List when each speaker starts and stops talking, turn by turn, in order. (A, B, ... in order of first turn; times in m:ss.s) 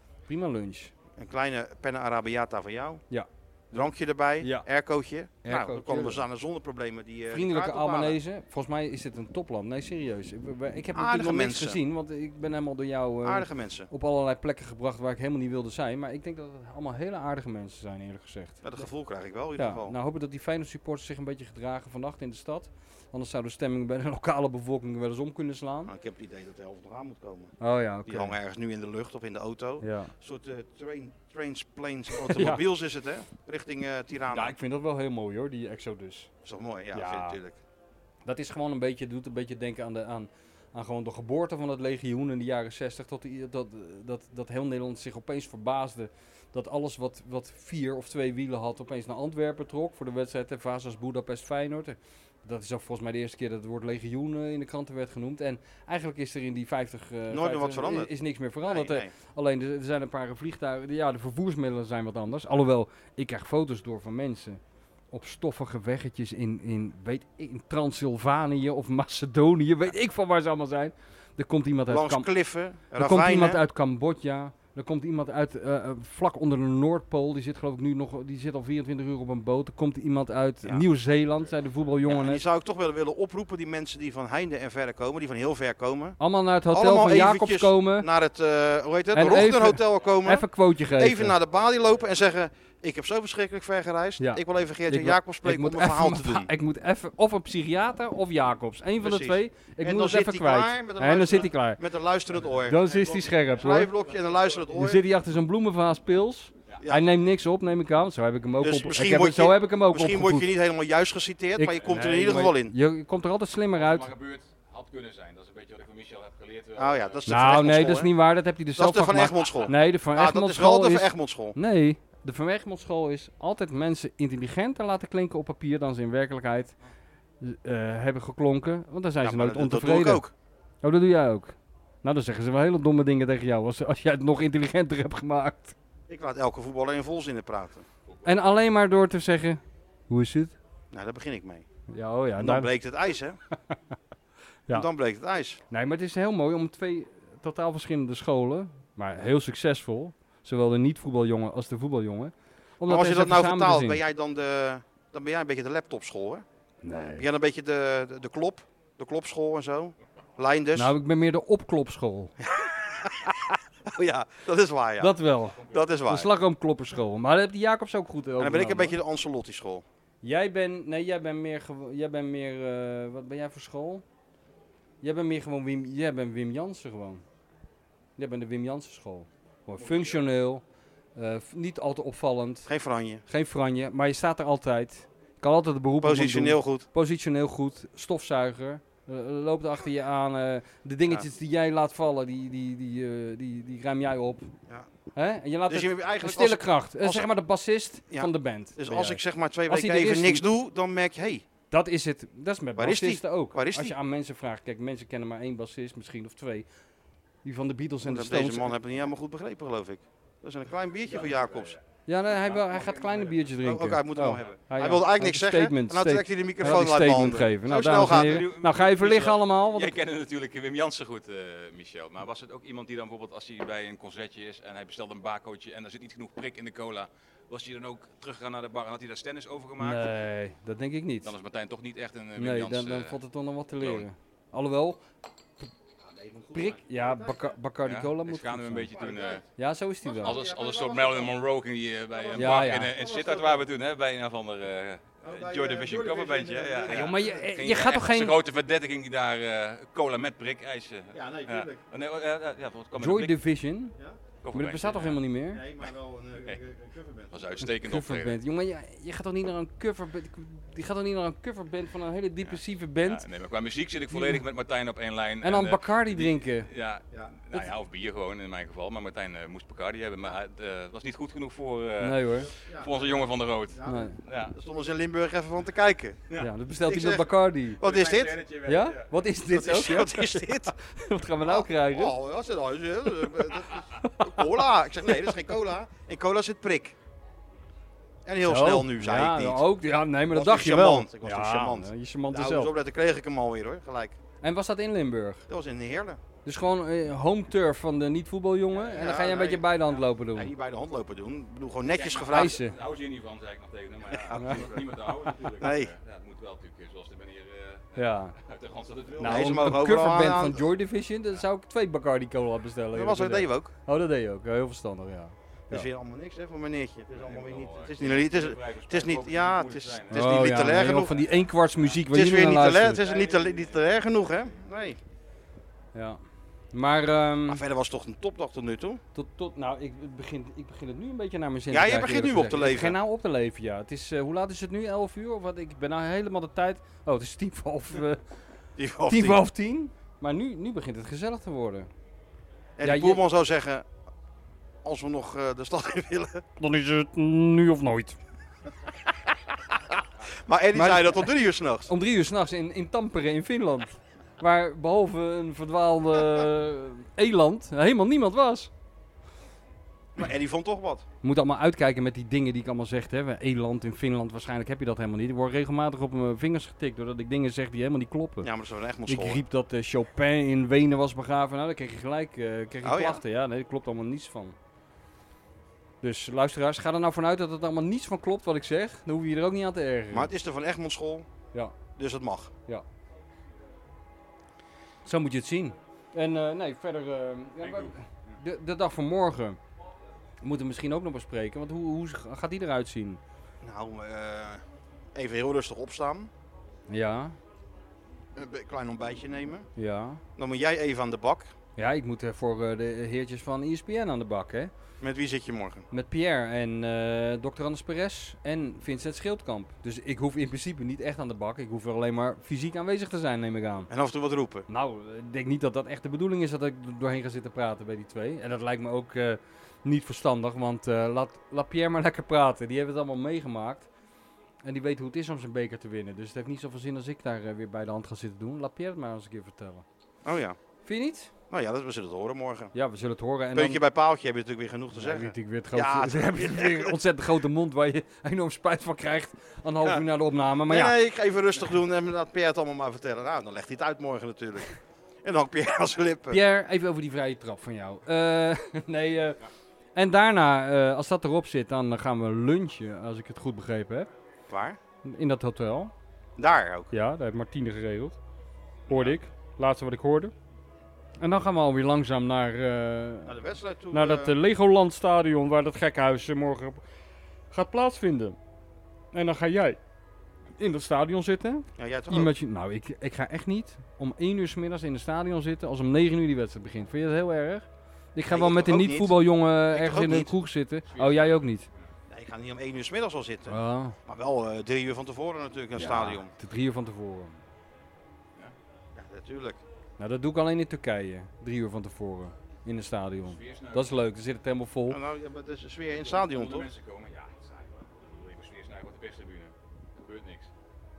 0:00.3-0:00.9 A
0:01.2-0:03.0 B
0:03.1-0:03.8 A
0:03.7-0:08.2 B
0:04.4-0:04.7 A
0:05.4-0:06.2 A
0:07.3-0:18.8 A
0:10.9-0:11.8 B
0:13.2-0:13.9 B
0:18.6-0:19.9 B
0:19.6-0:25.9 A
0:25.9-0:27.5 B
0:27.6-0:28.3 A
0:28.1-0:34.5 B
0:29.8-0:30.1 A
0:32.2-0:32.6 A
0:34.3-0:36.3 A
0:36.4-0:37.6 B
0:36.9-0:37.4 A
0:38.2-1:04.6 A
0:57.3-0:58.1 B
0:58.7-0:59.1 B
1:05.1-1:12.3 A
1:11.9-1:13.6 B
1:12.9-1:22.4 A
1:22.0-1:26.2 B
1:26.2-1:28.1 A
1:26.7-1:36.5 B
1:29.1-1:31.4 A
1:34.2-1:41.8 A
1:39.0-1:45.0 B
1:42.6-1:43.9 A
1:44.7-1:50.5 A
1:48.6-1:52.7 B
1:51.6-1:54.1 A
1:53.7-1:57.3 C
1:56.8-1:58.1 B
1:57.3-2:06.7 A
1:58.8-2:01.6 B
2:07.4-2:10.2 A
2:09.2-2:10.3 B
2:10.8-2:15.7 A
2:16.1-2:17.8 B
2:18.2-2:20.6 A
2:20.9-2:21.6 B
2:21.9-2:22.7 A
2:22.4-2:23.4 B
2:24.7-2:25.6 B
2:25.7-2:34.0 A
2:32.8-2:36.4 B
2:36.8-2:37.2 A
2:37.2-2:40.9 B
2:40.7-2:42.3 A
2:42.4-2:45.1 B
2:45.0-2:49.0 A
2:45.5-2:45.9 C
2:45.7-2:46.3 B
2:48.4-2:49.8 B
2:50.2-2:54.0 A
2:55.0-2:57.2 A
2:58.2-3:00.6 A
2:59.8-3:00.2 C
3:01.2-3:02.7 A
3:02.7-3:03.2 B
3:03.3-3:14.5 A
3:06.0-3:06.8 B
3:15.1-3:20.4 A
3:15.7-3:17.3 B
3:18.1-3:21.4 B
3:21.7-3:26.7 A
3:22.8-3:23.9 B
3:27.4-3:28.7 A
3:28.0-3:31.8 B
3:31.1-3:31.8 C
3:32.1-3:40.0 A
3:32.4-3:33.4 C
3:33.6-3:38.5 B
3:37.9-3:50.1 C
3:49.8-3:51.3 A
3:51.2-3:53.2 C
3:52.4-3:55.0 A
3:53.8-3:54.0 C
3:56.0-3:57.5 B
3:56.5-3:58.9 A
3:57.8-3:59.4 C
3:58.9-3:59.4 B
3:59.6-4:00.4 A
4:00.0-4:01.4 B
4:00.2-4:13.3 C
4:02.1-4:03.7 B
4:02.3-4:02.9 A
4:05.2-4:07.5 B
4:06.9-4:08.4 A
4:11.1-4:11.8 B
4:13.0-4:14.0 A
4:14.4-4:15.2 C
4:14.5-4:15.6 A
4:15.5-4:17.6 B
4:17.3-4:18.4 C
4:17.6-4:23.2 A
4:22.5-4:34.5 C
4:24.1-4:24.4 A
4:25.4-4:26.7 A
4:32.0-4:32.5 A
4:32.6-4:36.2 B
4:33.8-4:34.2 A
4:36.4-4:37.8 A
4:36.8-4:37.3 B
4:37.8-4:38.5 B
4:37.8-4:39.1 C
4:38.6-4:42.1 A
4:39.5-4:40.7 B
4:41.4-4:47.0 B
4:44.0-4:45.3 A
4:48.2-4:49.6 B
4:48.4-4:52.7 A
4:50.3-4:54.2 B
4:54.4-4:55.4 A
4:55.5-4:56.2 B
4:56.4-5:00.5 A
4:58.9-4:59.7 B
5:00.3-5:02.6 B
5:01.8-5:09.8 C
5:02.3-5:02.8 A
5:04.2-5:05.9 B
5:04.3-5:04.6 A
5:08.0-5:08.4 A
5:09.2-5:10.6 B
5:09.2-5:15.9 A
5:12.9-5:13.7 B
5:15.7-5:21.1 B
5:17.1-5:22.0 C
5:20.1-5:23.0 A
5:22.1-5:25.0 B
5:23.0-5:23.8 C
5:25.9-5:26.2 A
5:26.7-5:27.6 A
5:27.5-5:29.0 B
5:29.1-5:38.2 A
5:31.7-5:33.0 B
5:38.8-5:39.4 B
5:39.1-5:41.9 A
5:42.8-5:43.8 B
5:42.8-5:43.2 A
5:44.8-5:46.4 B
5:46.6-5:48.2 A
5:50.4-5:51.9 B
5:50.7-5:51.3 A
5:51.9-5:58.7 A
6:00.2-6:01.0 B
6:01.2-6:08.5 A
6:08.4-6:09.4 B
6:09.1-6:14.5 A
6:12.8-6:13.2 B
6:16.0-6:20.3 A
6:20.1-6:21.3 B
6:22.0-6:22.5 B
6:25.0-6:29.6 A
6:27.6-6:27.9 C
6:30.4-6:33.2 A
6:33.6-6:34.6 B
6:35.1-6:36.3 B
6:36.9-6:37.4 A
6:38.3-6:39.7 B
6:39.8-6:40.2 A
6:40.4-6:41.5 B
6:41.8-6:44.7 A
6:45.0-6:45.8 B
6:45.9-6:53.9 A
6:53.9-6:54.7 B
6:54.7-7:03.9 A
7:04.6-7:09.8 A
7:10.2-7:10.6 B
7:10.8-7:11.3 A
7:11.5-7:12.7 B
7:12.7-7:13.8 A
7:13.5-7:17.0 B
7:14.9-7:21.0 A
7:20.7-7:26.4 B
7:26.3-7:29.4 A
7:29.9-7:34.1 A
7:34.5-7:34.8 B
7:35.0-7:35.9 A
7:36.4-7:36.9 B
7:36.9-7:38.2 A
7:38.9-7:40.3 A
7:41.2-7:43.4 A
7:43.2-7:44.3 B
7:43.9-7:46.8 A
7:47.5-7:48.4 A
7:49.1-7:49.8 A
7:50.6-8:01.7 A
7:51.8-7:52.3 B
7:58.3-8:00.3 B
8:00.9-8:01.3 C
8:02.1-8:06.3 B
8:03.5-8:04.0 A
8:05.7-8:07.4 A
8:08.9-8:09.6 B
8:10.0-8:15.0 A
8:13.2-8:13.9 C
8:14.9-8:16.7 B
8:15.9-8:20.5 C